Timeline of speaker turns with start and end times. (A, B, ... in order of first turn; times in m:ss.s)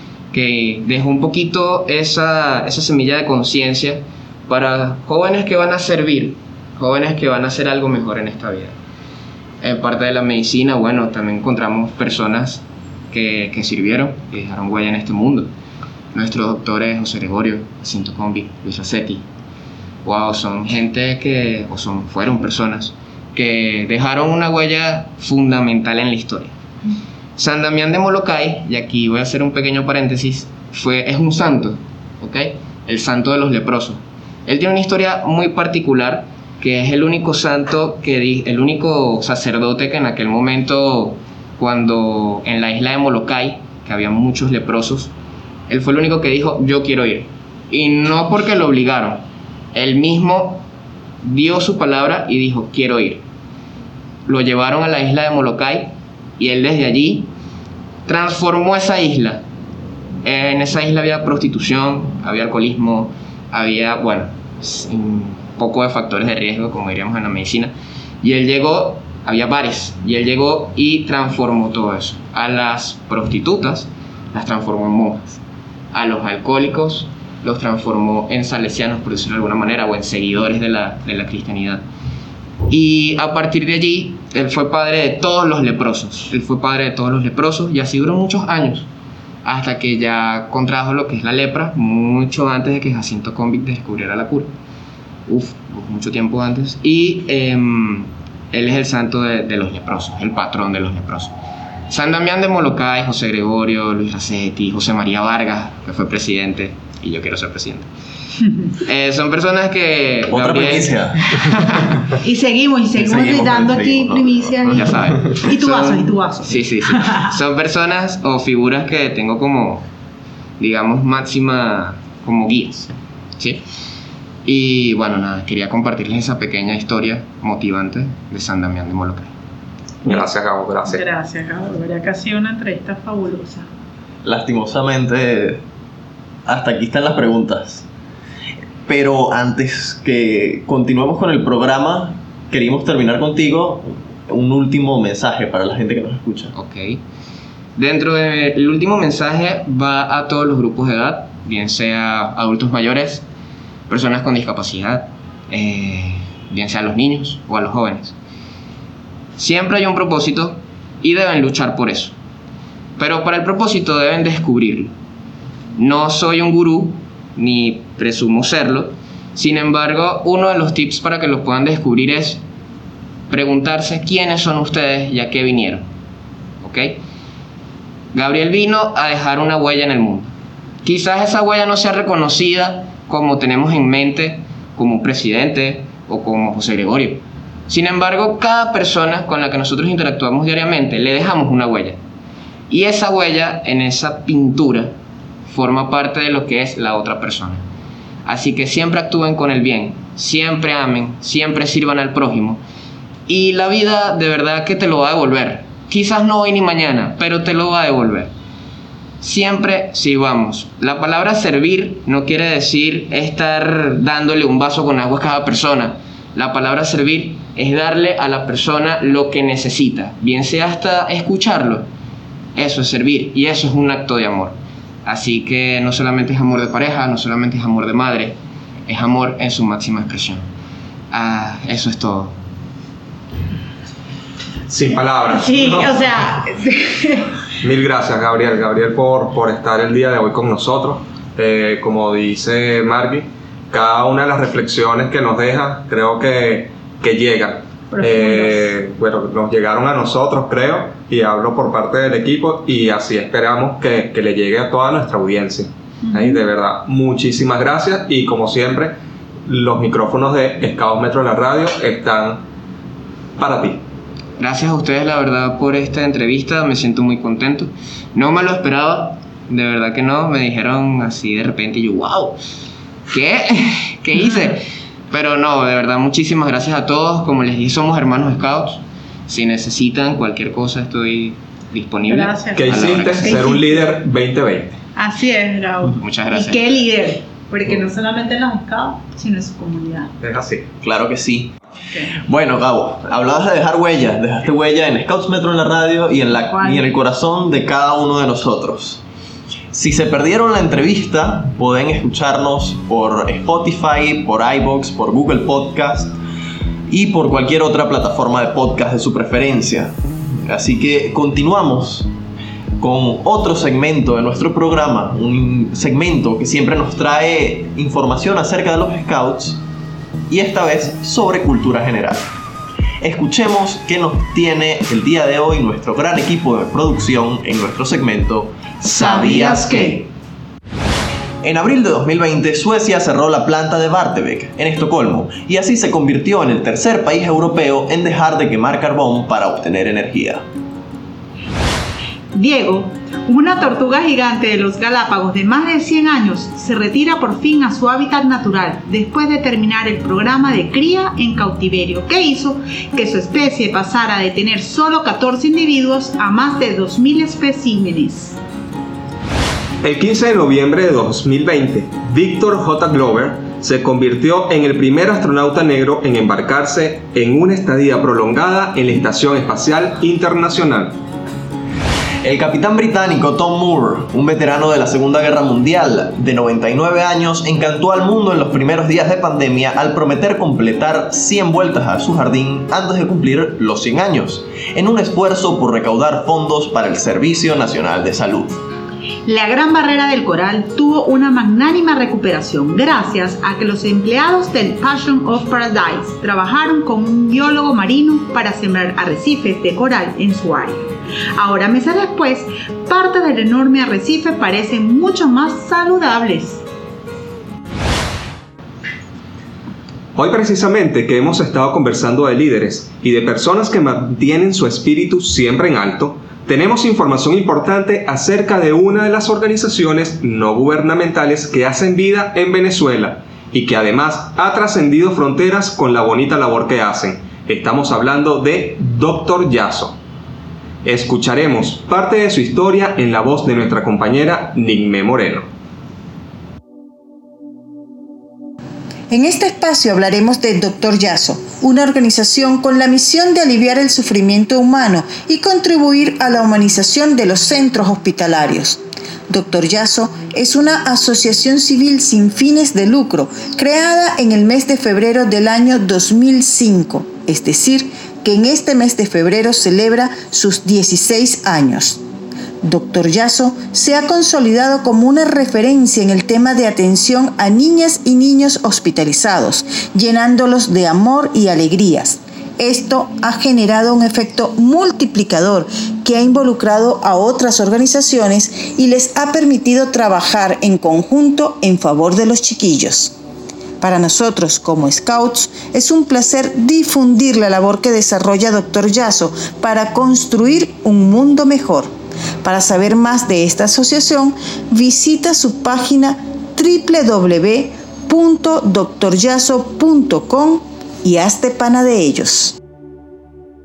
0:00.3-0:08.8 A
0:09.6-0:15.5 A
0:16.1-0:19.2 A
0:20.0-0:26.5 A
0:27.4-0:45.1 A
0:45.7-0:50.6 A
0:51.2-0:53.2 A
0:54.3-0:57.3 A
0:58.1-0:59.4 A
1:00.2-1:15.4 A
1:15.9-1:21.8 A
1:22.7-1:28.9 A
1:29.4-1:34.5 A
1:35.3-1:41.3 A
1:41.9-1:47.9 A
1:48.8-1:51.8 A
1:50.3-1:51.4 B
1:52.2-1:57.2 C
1:53.0-1:54.7 B
1:54.7-1:59.8 A
2:00.6-2:03.6 A
2:04.4-2:09.3 A
2:10.1-2:11.0 D
2:10.9-2:13.7 C
2:14.2-2:15.6 B
2:16.5-2:17.8 B
2:18.9-2:26.5 B
2:26.6-2:27.0 A
2:27.8-2:33.2 A
2:33.9-2:38.2 A
2:39.4-2:42.1 A
2:43.0-2:44.9 A
2:45.8-2:52.4 A
2:53.3-2:55.8 A
2:56.6-2:57.0 A
2:58.1-3:00.3 A
3:00.8-3:12.0 A
3:12.7-3:14.9 A
3:15.5-3:17.6 A
3:18.3-3:22.6 A
3:23.3-3:28.3 A
3:29.2-3:41.9 A
3:42.6-3:48.4 A
3:48.9-3:50.4 A
3:51.1-3:52.3 A
3:54.7-3:56.2 D
3:55.3-3:57.3 C
3:57.6-4:19.0 D
4:07.9-4:08.7 C
4:16.1-4:16.4 C
4:19.5-4:22.4 D
4:23.4-4:23.8 D
4:24.4-4:32.4 A
4:33.1-4:43.4 A
4:42.1-4:43.9 C
4:42.6-4:44.8 D
4:45.0-4:50.1 C
4:46.0-4:46.8 A
4:50.2-4:50.6 D
4:50.8-4:51.6 B
4:52.2-4:59.0 B
4:56.5-4:56.9 C
4:59.7-5:06.1 B
5:06.9-5:09.9 B
5:10.4-5:12.1 B
5:12.8-5:19.6 B
5:20.3-5:22.3 B
5:23.0-5:30.1 B
5:28.9-5:30.0 C
5:31.4-5:40.4 B
5:42.3-5:58.4 C
5:59.8-6:11.0 D
6:12.2-6:28.6 B
6:29.3-6:46.6 C
6:50.2-7:10.0 D
7:10.8-7:15.5 D
7:19.1-7:42.0 E
7:42.6-8:03.2 E
8:03.8-8:11.9 E
8:12.4-8:22.6 E